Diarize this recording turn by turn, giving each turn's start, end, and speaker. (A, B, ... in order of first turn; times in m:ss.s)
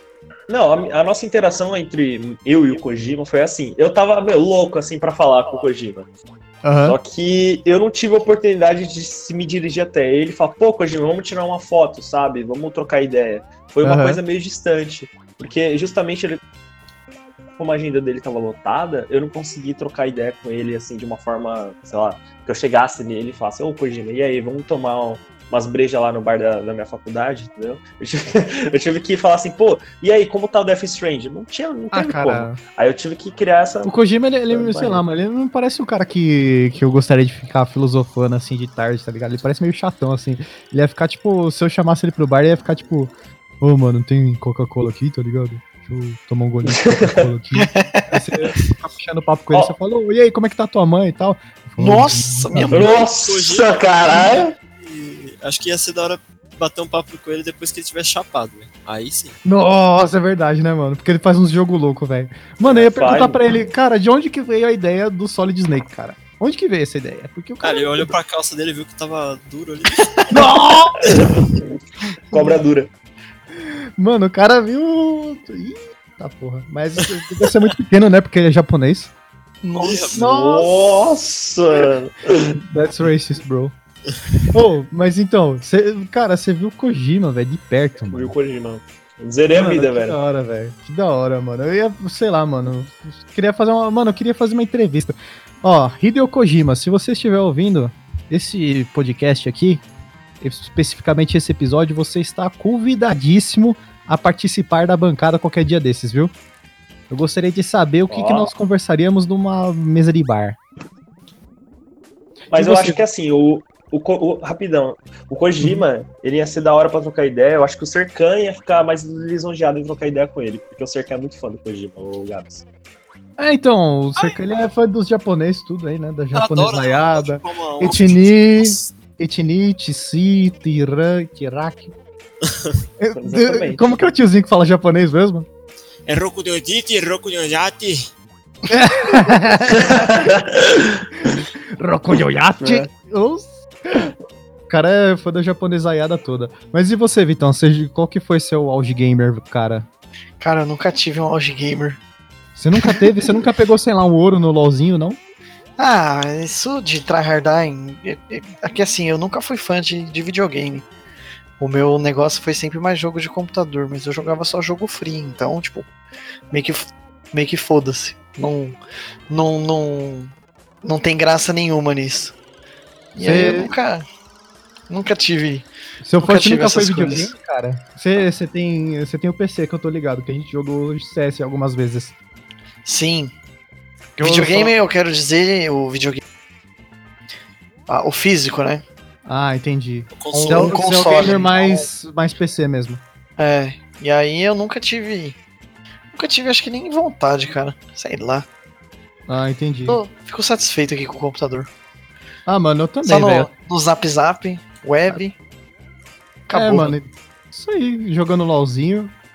0:00.5-0:06.1 A
0:06.6-0:07.0 B
0:06.8-0:16.4 A
0:13.8-0:14.2 B
0:17.6-0:33.9 A
0:31.9-0:32.6 B
0:33.8-0:52.9 B
0:34.5-0:35.0 A
0:46.6-0:47.3 A
0:47.6-0:48.2 C
0:51.8-0:53.0 C
0:52.7-0:54.5 A
0:52.8-0:59.4 D
0:59.4-1:08.1 B
1:02.6-1:03.4 A
1:07.6-1:10.4 D
1:10.3-1:11.1 B
1:11.0-1:11.6 A
1:12.3-1:12.9 A
1:13.6-1:19.1 B
1:19.6-1:20.9 C
1:19.8-1:20.2 D
1:20.1-1:22.5 A
1:22.7-1:23.7 B
1:24.5-1:28.3 B
1:28.0-1:30.2 A
1:29.5-1:39.8 B
1:40.4-1:46.3 B
1:47.1-1:50.6 B
1:48.1-1:48.5 A
1:52.5-2:02.6 A
1:52.5-1:53.0 B
2:03.4-2:11.9 B
2:06.3-2:08.9 D
2:12.5-2:12.7 D
2:13.0-2:15.4 B
2:13.2-2:14.1 A
2:16.0-2:18.1 D
2:18.7-2:20.0 B
2:19.7-2:21.0 A
2:21.8-2:24.1 B
2:22.6-2:22.9 A
2:24.7-2:29.8 B
2:30.4-2:32.0 C
2:32.6-2:35.2 B
2:32.8-2:33.1 C
2:35.8-2:40.8 C
2:41.6-2:45.9 C
2:46.5-2:48.8 C
2:49.3-2:50.3 C
2:50.8-2:52.3 C
2:53.1-2:54.0 C
2:53.2-2:53.7 B
2:54.9-2:55.7 C
2:56.0-3:02.1 B
2:56.2-2:57.3 C
3:02.8-3:03.3 C
3:04.2-3:06.2 C
3:04.2-3:04.7 B
3:07.9-3:08.8 C
3:09.2-3:13.0 B
3:10.1-3:11.4 D
3:10.4-3:11.9 C
3:13.4-3:15.4 C
3:16.1-3:18.4 C
3:19.3-3:20.0 B
3:19.9-3:21.7 C
3:22.5-3:23.5 B
3:23.0-3:25.3 C
3:26.5-3:27.0 C
3:26.5-3:29.1 B